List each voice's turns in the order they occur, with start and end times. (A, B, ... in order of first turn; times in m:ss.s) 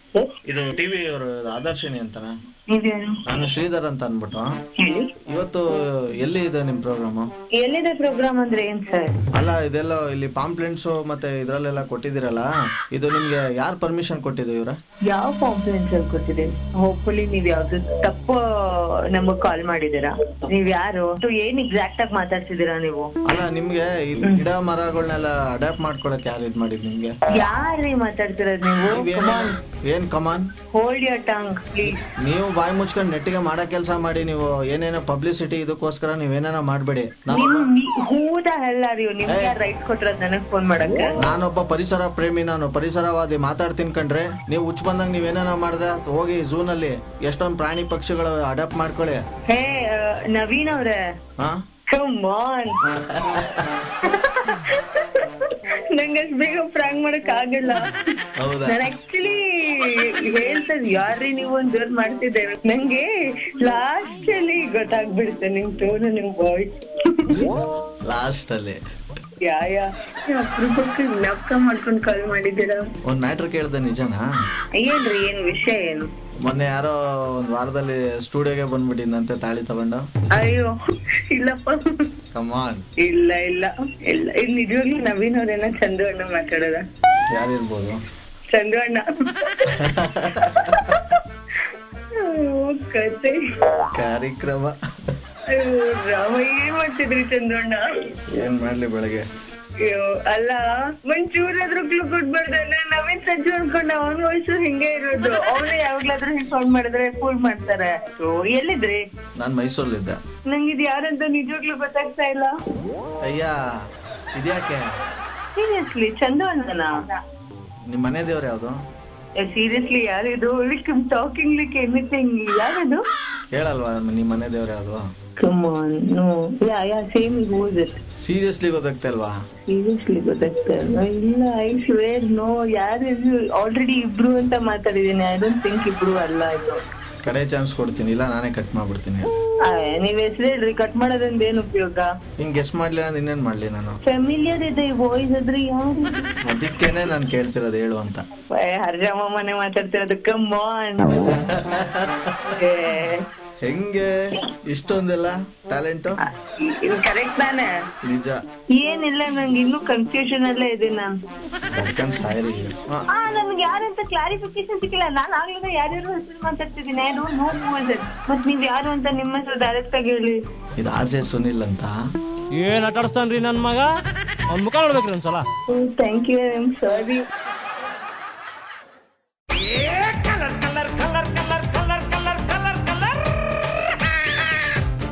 0:00.4-0:02.3 A
0:02.7-0:03.2 B
0:03.2-0:04.5 A
0:04.8-0:05.1 B
0:05.3-0:07.3 A
0:07.6-0:09.1 B
0:09.3-0:14.8 A
0:15.1-0:23.1 B
0:23.2-0:27.1 A
0:27.3-0:29.6 B
0:28.9-0:30.5 A
0:30.7-0:32.0 B
0:32.2-0:37.7 A
0:37.3-0:41.1 B
0:39.2-0:39.5 A
0:41.2-0:49.2 A
0:49.5-0:51.0 B
0:51.9-0:52.8 B
0:52.9-0:53.7 A
0:54.0-0:57.9 B
0:58.4-0:58.8 A
0:58.7-1:07.5 B
1:08.0-1:08.8 A
1:09.4-1:12.9 B
1:13.1-1:14.2 A
1:14.8-1:16.1 B
1:16.4-1:20.0 A
1:20.3-1:20.8 B
1:21.3-1:22.0 B
1:22.3-1:22.8 A
1:23.0-1:26.8 B
1:27.3-1:28.0 A
1:28.5-1:33.4 B
1:29.7-1:30.9 A
1:33.9-1:34.7 A
1:35.5-1:37.8 B
1:38.3-1:39.2 A
1:39.8-1:49.0 B
1:49.4-1:50.2 A
1:50.5-1:52.5 B
1:53.2-1:53.6 A
1:54.3-1:54.8 A
1:55.5-1:57.2 B
1:57.9-1:58.8 A
1:59.4-2:03.0 B
2:03.5-2:05.0 A
2:05.4-2:08.0 B
2:08.2-2:09.3 A
2:09.7-2:16.8 B
2:17.2-2:19.3 A
2:19.6-2:22.1 B
2:22.4-2:24.0 A
2:24.0-2:26.3 B
2:26.4-2:28.2 A
2:28.5-2:31.4 B
2:31.5-2:32.3 A
2:32.4-2:33.2 B
2:33.6-2:34.1 A
2:34.7-2:36.2 A
2:36.2-2:37.7 B
2:38.0-2:38.4 A
2:38.7-2:41.1 B
2:41.7-2:43.0 A
2:43.1-2:50.4 B
2:50.8-2:51.9 A
2:52.5-2:53.9 C
2:54.5-2:55.4 C
2:55.7-2:57.2 B
2:59.5-3:03.2 C